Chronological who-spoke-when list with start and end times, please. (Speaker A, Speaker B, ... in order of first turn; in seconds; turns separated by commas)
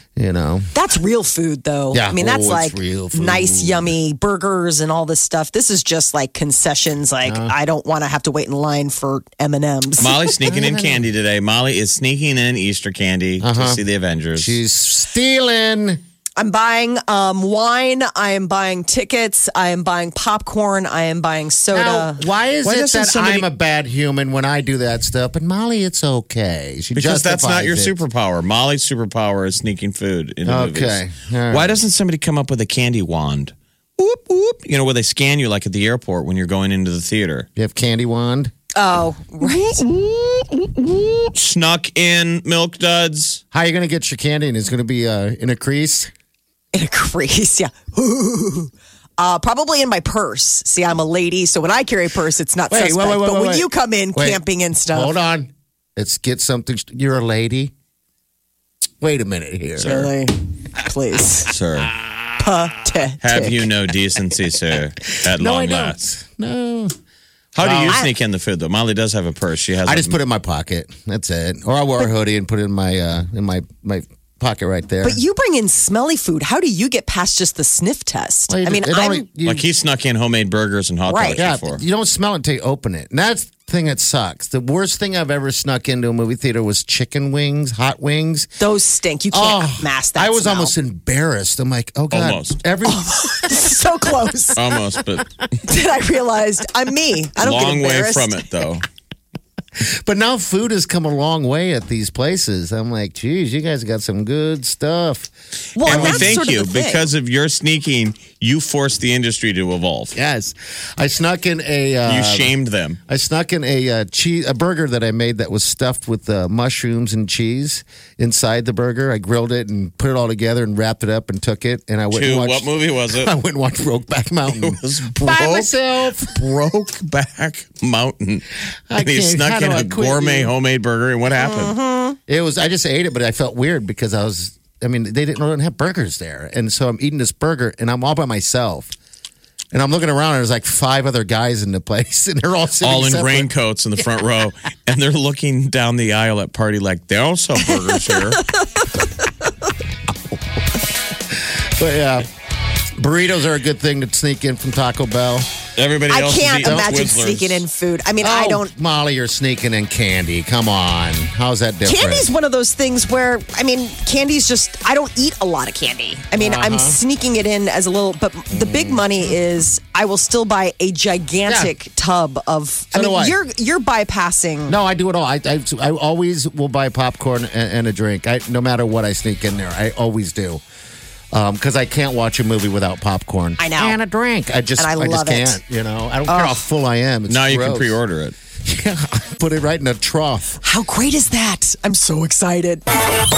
Speaker A: 0.1-0.7, Speaker B: 0.7-10.4, Speaker A: 1.9-3.9, Speaker A: 7.2-7.5, Speaker C: 10.0-14.6, Speaker A: 10.4-11.1, Speaker A: 13.4-13.8, Speaker A: 14.3-16.0, Speaker B: 16.4-23.4, Speaker A: 21.7-28.0, Speaker C: 22.8-23.4, Speaker C: 26.9-37.5, Speaker A: 30.4-31.8, Speaker A: 37.5-38.5, Speaker B: 38.7-39.8, Speaker A: 39.5-41.3, Speaker C: 41.3-43.4, Speaker A: 43.5-46.1, Speaker B: 46.7-55.1, Speaker A: 52.7-57.7, Speaker A: 59.0-60.1, Speaker B: 59.8-61.5, Speaker C: 61.5-61.9, Speaker A: 61.9-62.2, Speaker B: 62.4-63.6, Speaker C: 63.2-66.0, Speaker A: 65.1-66.9, Speaker C: 67.5-70.2, Speaker A: 67.6-68.0, Speaker A: 69.8-75.2, Speaker B: 75.0-79.2, Speaker A: 78.5-79.7, Speaker C: 79.4-81.8, Speaker B: 81.1-81.4, Speaker A: 81.4-88.5, Speaker B: 88.6-90.7, Speaker A: 89.3-93.7, Speaker C: 92.1-92.6, Speaker B: 92.8-94.6, Speaker C: 94.5-95.3, Speaker B: 95.6-98.4, Speaker C: 97.4-98.8, Speaker A: 99.8-105.3, Speaker B: 105.8-107.1, Speaker C: 105.8-110.2, Speaker A: 105.8-106.4, Speaker A: 110.1-112.5, Speaker C: 112.0-113.0, Speaker A: 113.1-126.4, Speaker C: 122.1-123.3, Speaker C: 124.5-131.8, Speaker A: 128.9-130.5, Speaker B: 131.3-132.2, Speaker A: 132.3-138.9, Speaker A: 139.7-143.5, Speaker C: 142.8-148.4, Speaker A: 151.3-152.3, Speaker A: 153.0-155.5, Speaker C: 155.8-157.6, Speaker B: 156.1-158.7, Speaker A: 156.7-156.9, Speaker A: 158.2-162.3, Speaker B: 161.8-174.8, Speaker A: 166.3-167.0, Speaker A: 168.5-169.3, Speaker A: 171.4-171.7, Speaker A: 172.9-173.4, Speaker A: 174.7-180.6, Speaker A: 181.3-188.0, Speaker B: 183.6-184.0, Speaker B: 184.8-185.6, Speaker B: 186.3-186.6, Speaker C: 187.3-188.3, Speaker A: 188.6-190.5, Speaker B: 190.6-192.8